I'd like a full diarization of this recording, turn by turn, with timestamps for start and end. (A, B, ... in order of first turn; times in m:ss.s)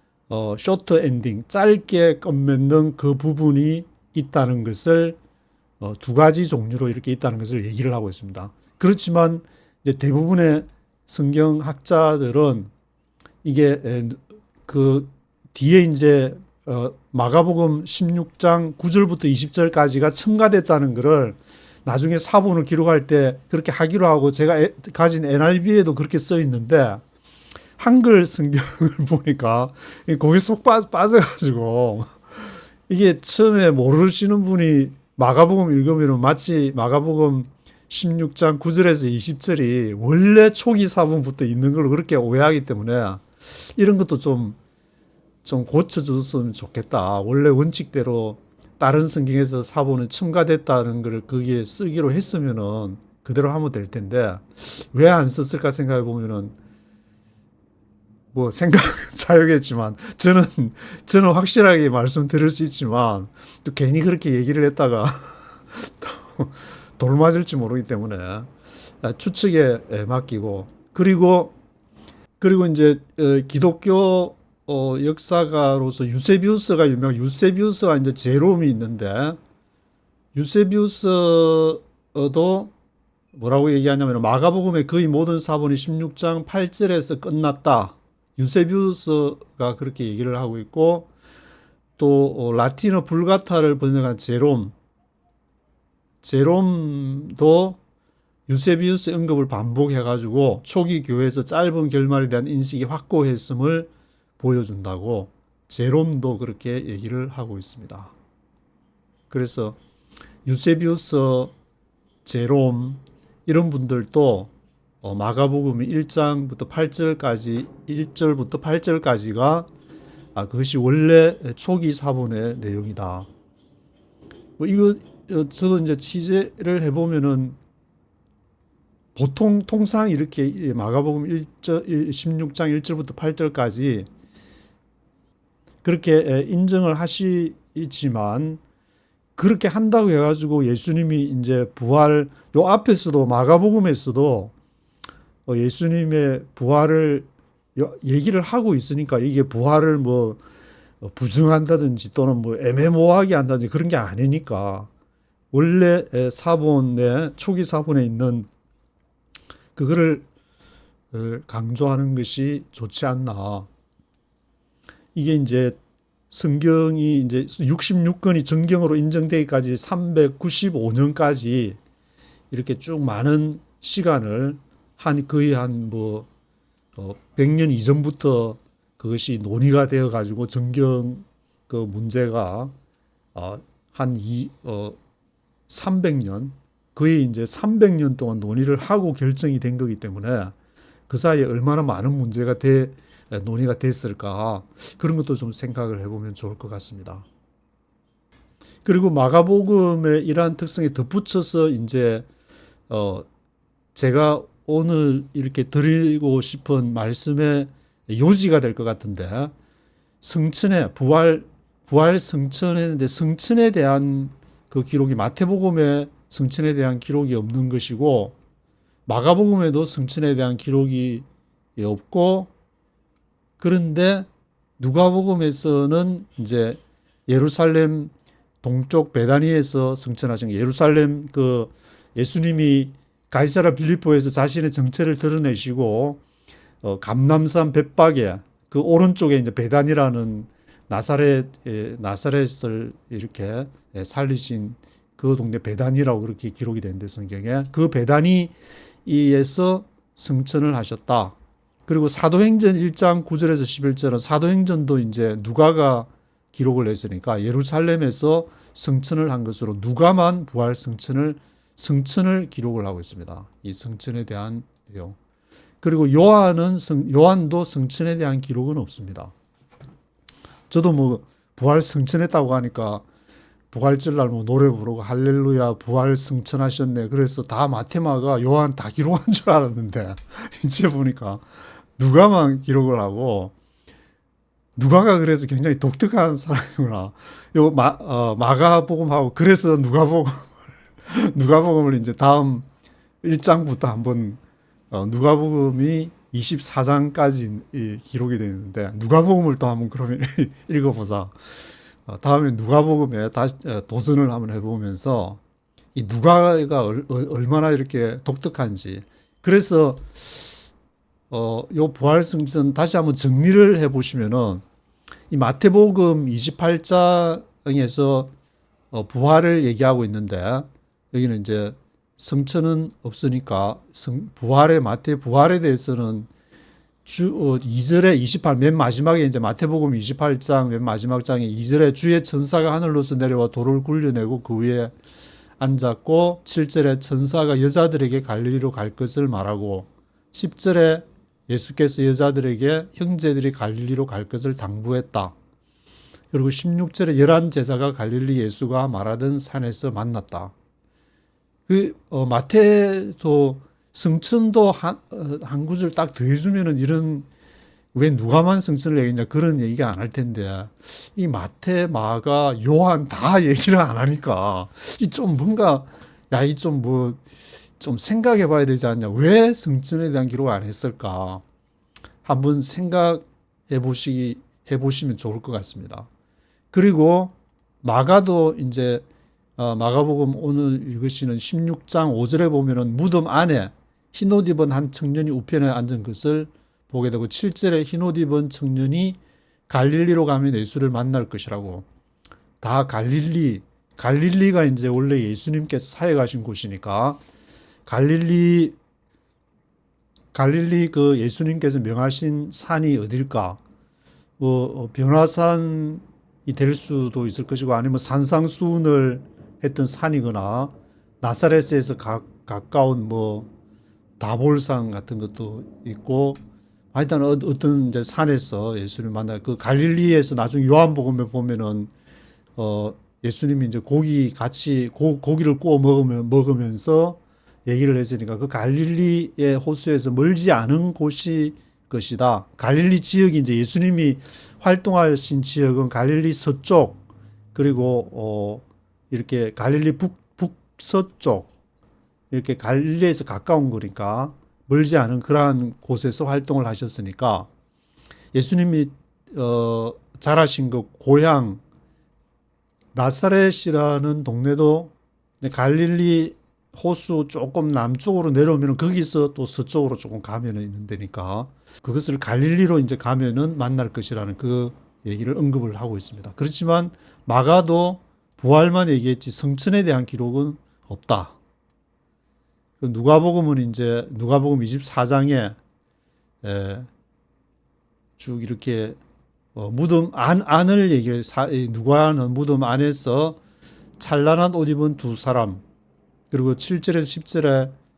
0:00.3-0:05.2 A
0:05.8-0:12.7 A
0:13.4-0:27.0 A
0:27.8-0:32.2 A
0:32.9-0:43.2 A
0:43.8-0:44.6 A
0:45.4-0:56.5 A
0:58.3-1:08.5 A
1:09.0-1:11.5 A
1:12.4-1:19.4 A
1:20.3-1:22.7 A
1:23.3-1:31.1 A
1:32.0-1:34.7 A
1:36.2-1:37.8 A
1:38.5-1:48.1 A
1:49.3-1:49.8 A
1:50.4-1:51.5 A
1:52.2-1:54.5 A
1:55.0-1:59.7 A
2:00.3-2:03.3 A
2:04.6-2:07.6 A
2:09.1-2:14.1 A
2:15.8-2:18.6 A
2:19.4-2:24.5 A
2:25.4-2:30.4 A
2:31.0-2:34.9 A
2:35.5-2:38.5 A
2:39.7-2:40.3 A
2:41.1-2:43.7 A
2:45.1-2:45.8 A
2:46.3-2:51.8 A
2:52.5-2:56.3 A
2:57.0-3:02.7 A
3:03.3-3:05.0 A
3:05.7-3:10.5 A
3:11.1-3:17.2 A
3:18.8-3:22.2 A
3:22.9-3:23.2 A
3:23.9-3:29.5 A
3:30.2-3:38.3 A
3:39.0-3:41.2 A
3:41.8-3:42.5 A
3:43.6-3:44.3 A
3:44.8-3:56.2 A
3:56.8-4:08.5 A
4:09.0-4:11.4 A
4:11.9-4:25.2 A
4:25.8-4:29.3 A
4:30.7-4:33.0 A
4:33.7-4:41.4 A
4:42.0-4:43.5 A
4:44.8-4:52.7 A
4:53.2-4:54.4 A
4:54.9-5:01.4 A
5:02.0-5:05.4 A
5:05.9-5:10.5 A
5:11.3-5:14.6 A
5:15.3-5:18.3 A
5:18.9-5:26.3 A
5:27.0-5:34.9 A
5:35.6-5:45.3 A
5:46.3-5:50.5 A
5:51.7-5:57.2 A
5:57.9-6:07.2 A
6:07.8-6:11.4 A
6:12.2-6:16.1 A
6:16.7-6:19.0 A
6:19.6-6:29.2 A
6:29.7-6:31.8 A
6:32.6-6:37.2 A
6:37.8-6:38.8 A
6:40.3-6:43.6 A
6:44.4-6:53.5 A
6:54.2-6:56.4 A
6:56.9-7:01.9 A
7:02.6-7:17.0 A
7:17.5-7:21.5 A
7:22.3-7:27.5 A
7:28.3-7:31.6 A
7:32.9-7:51.4 A
7:52.8-7:55.6 A
7:56.4-7:56.9 A
7:58.2-7:59.0 A
7:59.5-8:03.4 A
8:04.0-8:05.6 A
8:06.3-8:07.8 A